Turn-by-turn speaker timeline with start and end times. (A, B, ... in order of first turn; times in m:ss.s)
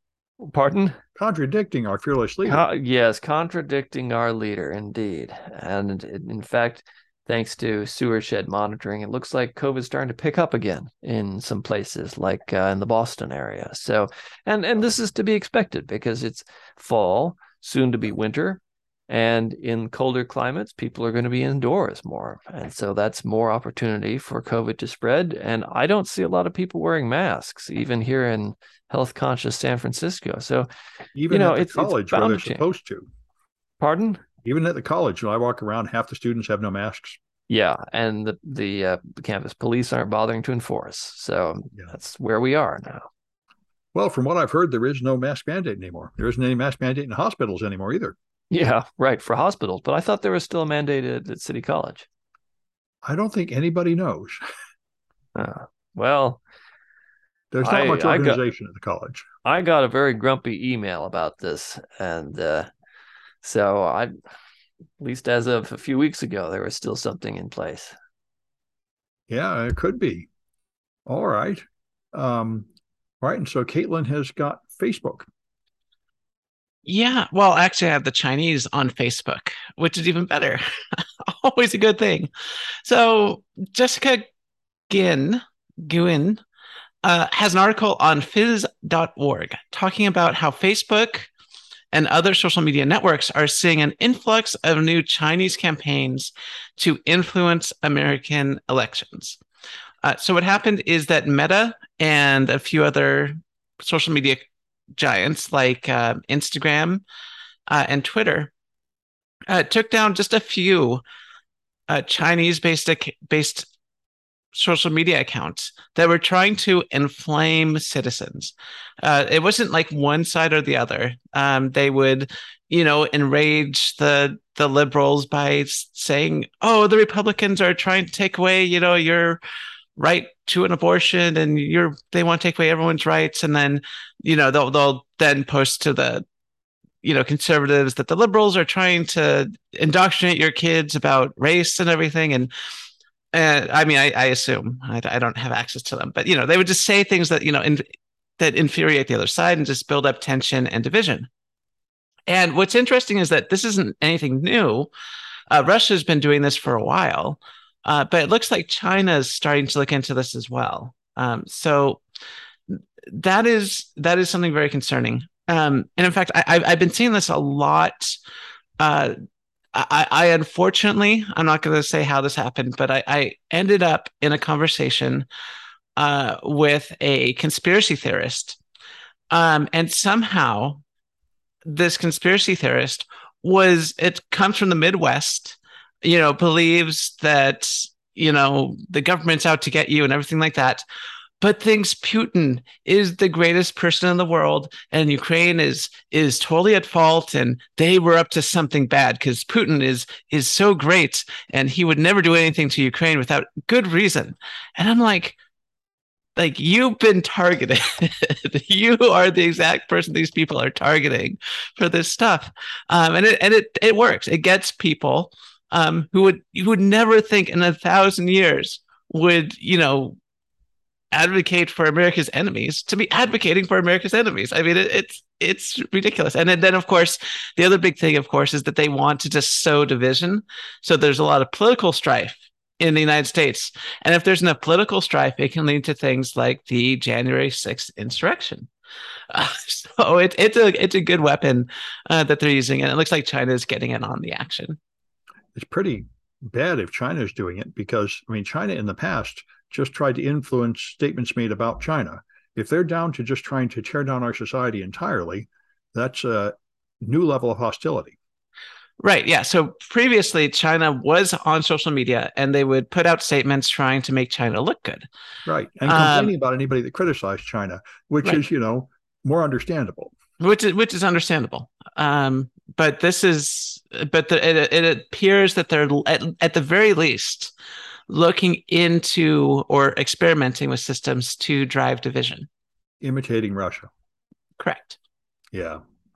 0:00.4-0:01.0 A
0:01.2-0:02.6 B
0:02.5-0:30.7 A
0:31.2-0:33.1 B
0:31.3-0:32.6 A
0:33.8-0:34.2 A
0:34.4-0:37.2 B
0:37.5-0:43.1 A
0:43.9-0:48.2 B
0:48.5-0:52.1 A
0:53.0-0:54.4 B
0:55.4-0:56.4 A
0:57.5-0:59.3 B
0:57.6-0:58.4 A
0:59.4-1:02.7 A
1:03.4-1:04.1 A
1:05.0-1:08.0 A
1:09.3-1:10.3 B
1:11.1-1:12.7 B
1:13.2-1:15.3 B
1:16.9-1:22.3 C
1:22.8-1:24.3 C
1:24.9-1:26.4 C
1:27.0-1:31.3 C
1:31.9-1:39.4 C
1:40.0-1:44.4 C
1:45.0-1:47.0 C
1:47.7-1:48.5 C
1:49.5-1:51.0 C
1:51.9-1:53.7 C
1:54.5-2:09.4 C
2:10.0-2:16.2 C
2:17.0-2:22.5 C
2:23.3-2:27.8 C
2:28.4-2:31.3 C
2:32.3-2:34.9 C
2:35.5-2:42.0 C
2:42.7-2:48.2 C
2:48.8-2:49.2 C
2:49.7-2:55.3 C
2:56.0-2:58.6 C
2:59.3-3:00.8 C
3:01.6-3:10.8 C
3:11.4-3:25.4 C
3:26.4-3:40.2 C
3:41.1-3:58.7 C
3:59.3-4:04.8 C
4:05.6-4:18.2 B
4:19.0-4:25.1 C
4:25.5-4:30.1 B
4:25.9-4:26.3 C
4:30.4-4:37.5 C
4:38.1-4:42.5 C
4:43.0-4:43.9 B
4:44.6-4:45.0 C
4:45.5-4:45.8 B